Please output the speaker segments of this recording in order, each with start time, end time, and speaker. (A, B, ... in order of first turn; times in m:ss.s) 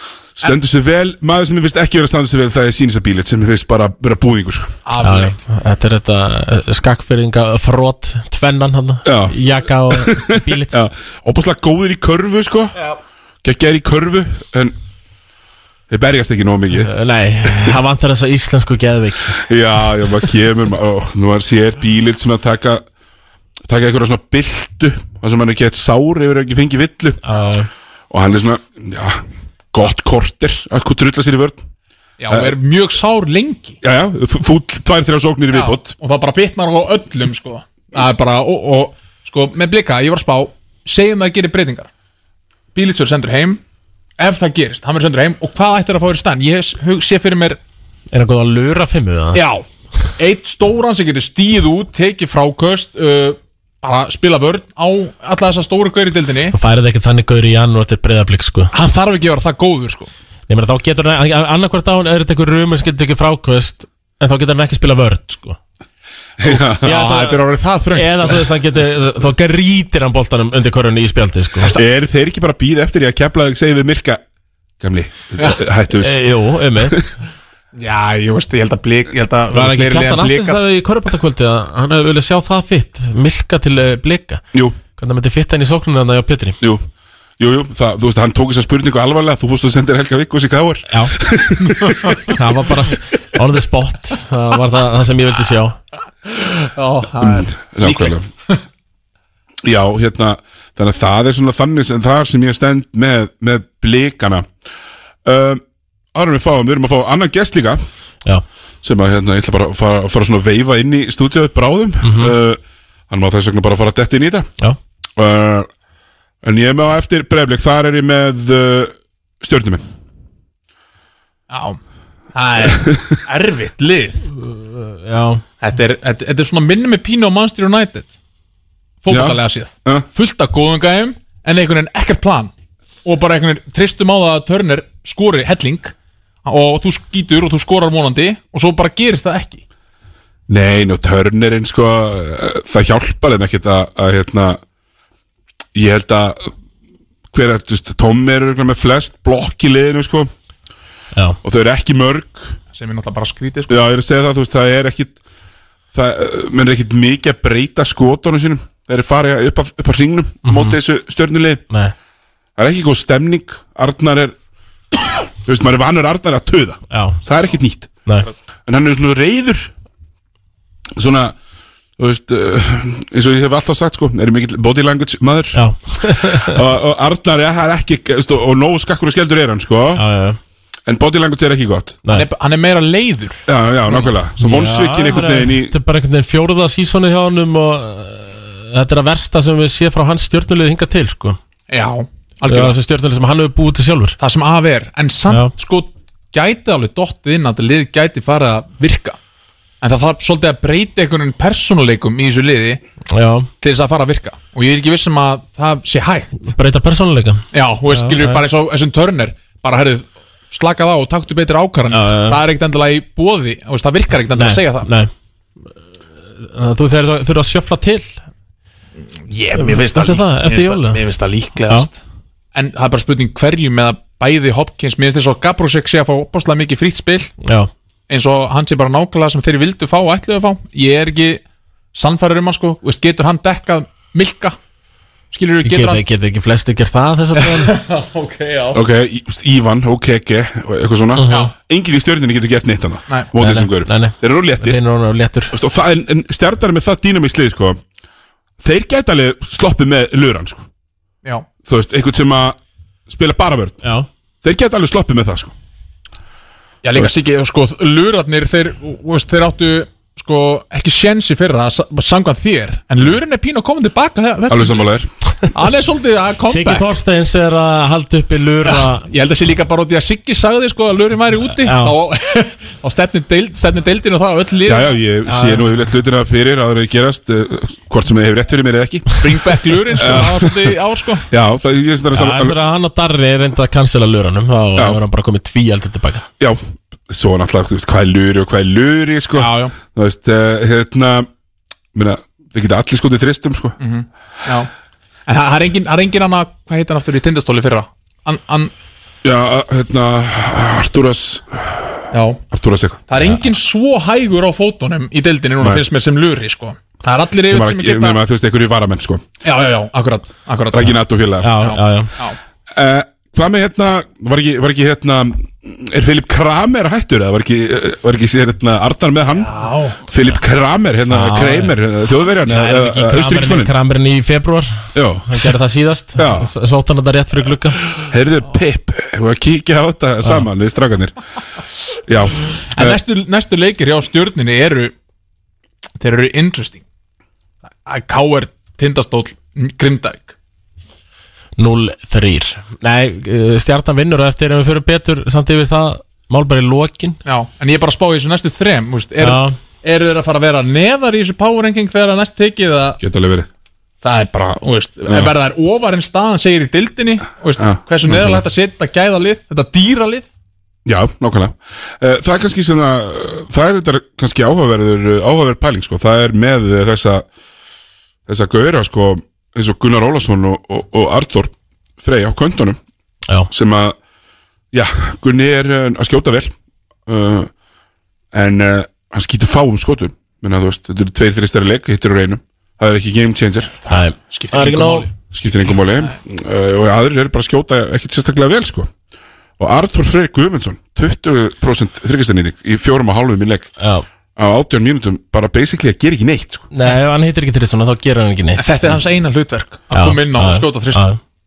0:00.4-0:04.8 A
0:04.9-0:05.4 B
0:05.0-0:10.9 C
0:09.0-0:09.4 A
0:09.9-0:12.8 A
0:13.4-0:14.8 A
0:15.9-0:16.9 A
0:16.8-0:19.4 C
0:19.4-0:22.8 A
0:23.7-0:27.2 A
0:27.2-0:27.7 C
0:28.1-0:31.6 A
0:32.2-0:33.8 B
0:32.3-0:32.6 A
0:33.8-0:36.0 A
0:35.5-0:41.9 B
0:42.7-0:43.6 B
0:44.2-0:47.6 B
0:48.1-0:49.4 C
0:49.3-0:49.6 B
0:50.2-0:56.6 B
0:56.5-0:58.7 C
0:58.7-1:00.1 B
1:00.5-1:05.6 C
1:06.4-1:06.9 A
1:06.5-1:08.5 B
1:06.8-1:11.7 C
1:11.7-1:14.2 A
1:14.8-1:16.2 A
1:15.4-1:15.6 B
1:16.0-1:17.0 C
1:17.7-1:20.6 B
1:19.5-1:24.4 C
1:25.0-1:26.6 C
1:27.4-1:32.0 A
1:30.9-1:31.2 C
1:32.3-1:35.8 C
1:36.6-1:38.6 B
1:37.2-1:38.3 A
1:39.6-1:44.5 A
1:45.2-1:45.6 A
1:46.1-1:47.8 A
1:48.8-1:54.5 A
1:52.0-1:52.4 C
1:55.2-1:55.7 A
1:56.4-1:59.8 A
2:01.5-2:01.8 B
2:02.3-2:04.3 B
2:02.7-2:03.2 A
2:04.4-2:05.4 C
2:05.6-2:08.2 B
2:09.0-2:12.5 B
2:09.1-2:10.1 A
2:13.0-2:15.9 B
2:16.4-2:19.6 B
2:20.5-2:24.6 A
2:25.8-2:26.5 A
2:27.3-2:30.3 A
2:31.4-2:32.6 A
2:32.7-2:33.8 B
2:33.7-2:35.2 A
2:35.9-2:41.6 A
2:40.4-2:40.8 C
2:42.6-2:44.4 A
2:45.5-2:47.9 A
2:46.9-2:47.2 C
2:48.7-2:49.7 A
2:51.0-2:51.4 A
2:52.0-3:00.0 A
2:55.5-2:56.6 C
3:00.0-3:00.4 C
3:00.9-3:02.0 A
3:02.1-3:04.1 B
3:03.5-3:05.7 A
3:04.4-3:11.4 C
3:11.7-3:12.8 B
3:12.4-3:14.2 C
3:14.2-3:19.2 B
3:19.8-3:22.8 B
3:23.1-3:23.5 C
3:23.6-3:26.5 B
3:26.4-3:28.4 C
3:27.5-3:34.9 B
3:31.9-3:32.4 C
3:34.3-3:35.1 C
3:36.4-3:38.2 C
3:39.2-3:42.0 B
3:39.6-3:41.0 C
3:42.5-3:47.3 B
3:47.4-3:47.7 C
3:48.1-3:51.4 B
3:51.9-3:54.6 B
3:55.3-3:56.0 B
3:55.6-3:57.7 C
3:57.4-3:58.8 B
3:58.7-4:04.8 A
4:01.2-4:01.5 C
4:01.3-4:01.5 B
4:03.4-4:05.5 C
4:05.5-4:07.8 A
4:08.6-4:10.7 A
4:11.6-4:12.6 A
4:13.1-4:13.8 A
4:14.4-4:15.5 A
4:16.8-4:24.9 B
4:24.5-4:25.1 A
4:25.5-4:26.9 B
4:26.5-4:29.1 C
4:28.6-4:35.6 B
4:31.5-4:32.0 C
4:34.6-4:39.2 A
4:39.2-4:41.3 B
4:39.9-4:40.5 A
4:41.3-4:42.6 A
4:42.1-4:46.2 C
4:46.4-4:51.3 A
4:49.3-4:49.7 B
4:51.9-4:53.8 A
4:53.8-4:54.7 B
4:55.3-4:58.7 B
4:59.2-5:03.2 A
5:02.1-5:02.4 B
5:03.1-5:08.2 B
5:07.5-5:09.2 A
5:09.4-5:11.0 B
5:10.7-5:11.6 A
5:11.4-5:12.1 C
5:11.6-5:12.4 B
5:12.7-5:19.5 A
5:19.3-5:20.0 B
5:20.1-5:23.7 A
5:21.1-5:21.8 C
5:22.5-5:27.8 C
5:25.0-5:25.5 A
5:26.2-5:26.5 A
5:28.1-5:31.1 A
5:30.2-5:30.5 C
5:32.1-5:33.0 A
5:32.7-5:34.9 B
5:36.0-5:36.8 B
5:37.8-5:40.4 B
5:41.6-5:47.2 C
5:47.3-5:53.0 B
5:49.2-5:49.6 C
5:53.0-5:53.5 A
5:54.0-6:00.3 B
5:55.1-5:55.3 A
5:57.6-5:58.4 A
6:00.9-6:07.3 A
6:08.3-6:12.8 A
6:13.5-6:14.0 A
6:14.7-6:16.5 A
6:17.1-6:17.5 A
6:18.3-6:23.7 A
6:23.7-6:25.1 B
6:23.9-6:25.1 C
6:25.3-6:28.9 A
6:25.7-6:26.1 B
6:29.6-6:33.7 A
6:33.8-6:34.1 C
6:34.4-6:36.7 A
6:36.7-6:39.0 C
6:38.6-6:41.1 B
6:39.9-6:41.2 C